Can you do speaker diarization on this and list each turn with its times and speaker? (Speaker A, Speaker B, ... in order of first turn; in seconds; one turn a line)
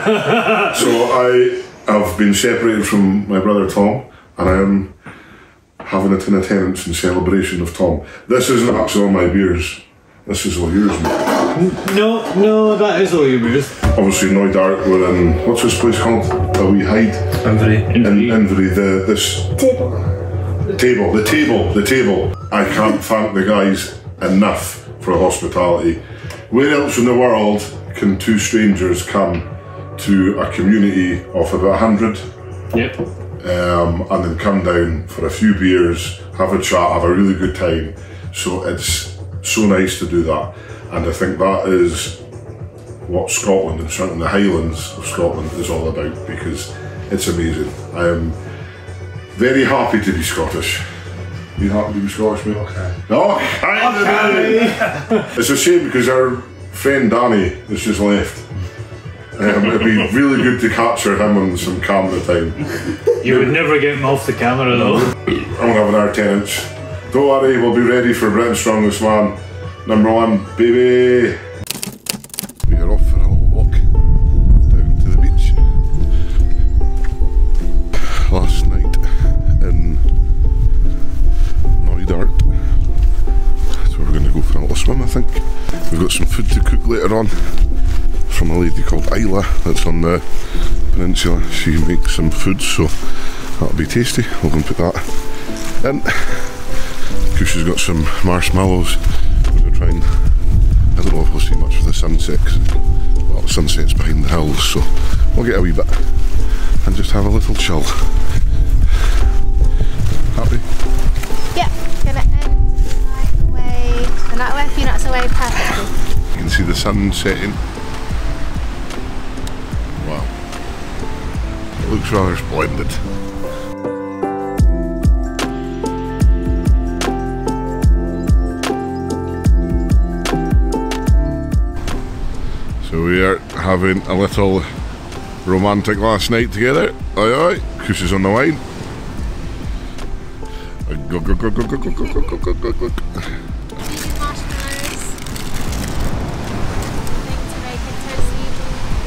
Speaker A: 0.2-0.5
Speaker B: 0.6-5.0
Speaker B: 5.8-11.3
Speaker A: 11.5-13.7
Speaker B: 13.8-19.6
Speaker A: 17.4-18.4
Speaker C: 19.6-19.8
Speaker B: 20.7-32.2
Speaker A: 32.7-33.0
Speaker B: 33.4-42.2
Speaker B: 43.1-48.4
Speaker B: 49.3-50.9
Speaker B: 51.6-58.5
Speaker A: 53.9-55.2
Speaker B: 59.3-63.5
Speaker A: 63.2-65.1
Speaker B: 64.8-71.4
Speaker B: 72.6-73.9
Speaker B: 74.7-75.7
Speaker B: 78.0-80.1
Speaker B: 81.8-82.8
Speaker B: 83.7-87.7
Speaker B: 88.3-106.2
Speaker B: 106.8-108.3
Speaker B: 110.3-110.7
Speaker C: 111.5-116.0
Speaker B: 116.3-117.6
Speaker B: 120.0-120.3
Speaker B: 121.8-123.1
Speaker B: 132.8-134.7
Speaker B: 135.4-138.6
Speaker B: 140.9-143.3
Speaker C: 143.8-145.2
Speaker C: 147.1-148.7